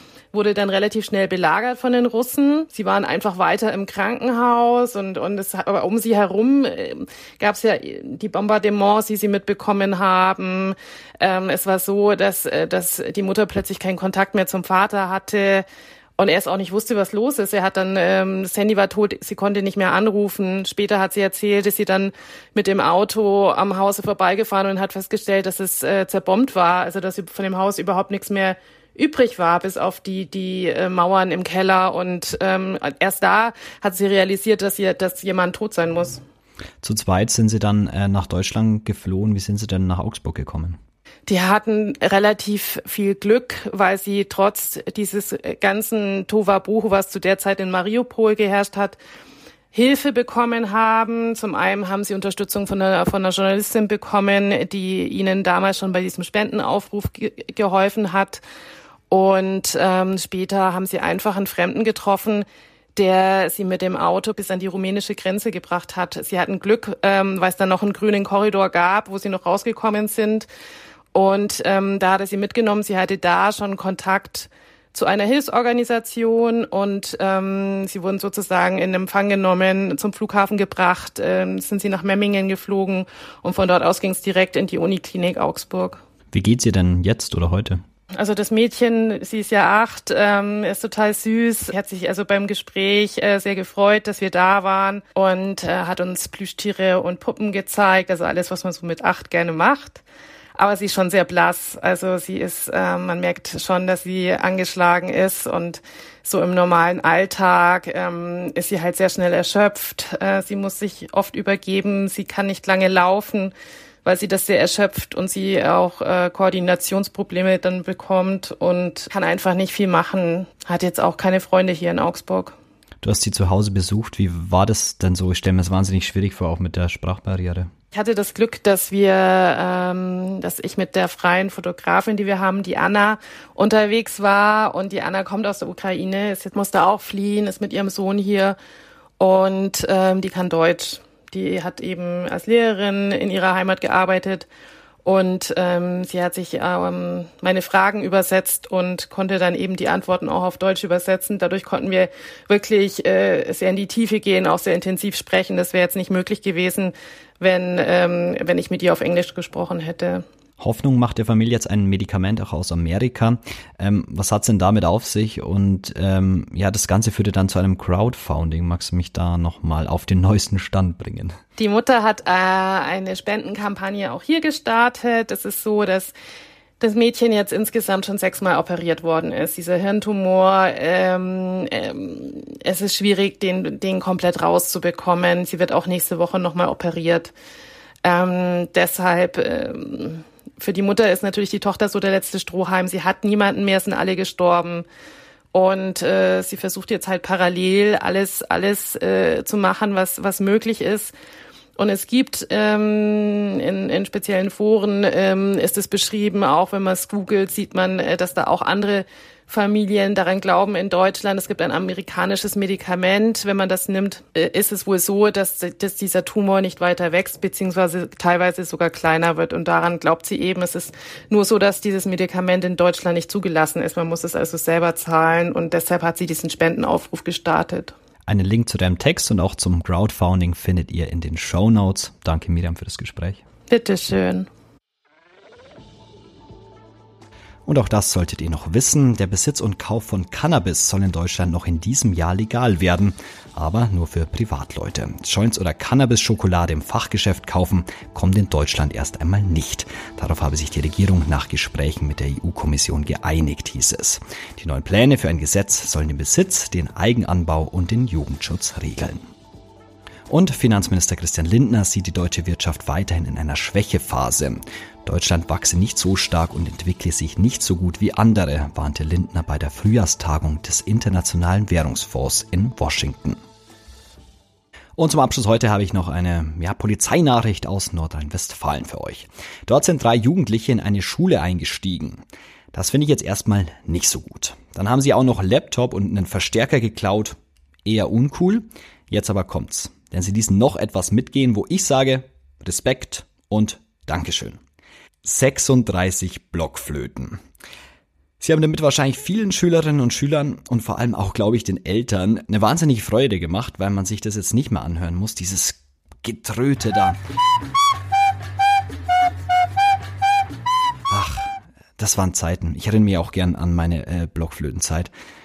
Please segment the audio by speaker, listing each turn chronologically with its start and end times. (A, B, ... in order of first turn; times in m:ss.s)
0:00.3-0:15.7 A
0:16.2-0:36.2 A
0:36.8-0:40.8 B
0:41.3-0:49.0 A
0:49.7-0:58.4 A
0:59.1-1:10.5 A
1:11.1-1:26.0 A
1:26.3-1:27.8 B
1:28.1-1:40.0 A
1:40.6-1:53.5 A
1:54.0-2:02.6 A
2:03.0-2:07.7 B
2:07.9-2:18.6 A
2:19.2-2:24.5 A
2:25.0-2:40.2 A
2:40.6-2:51.4 B
2:51.6-2:56.1 A
2:56.8-3:07.3 A
3:08.0-3:14.9 A
3:15.5-3:21.1 A
3:21.8-3:47.9 A
3:48.3-3:53.4 B
3:53.7-3:54.5 A
3:57.7-4:19.3 B
4:20.3-4:33.4 B
4:35.0-4:54.6 B
4:55.2-4:57.4 B
4:58.4-5:07.2 B
5:11.1-5:15.1 B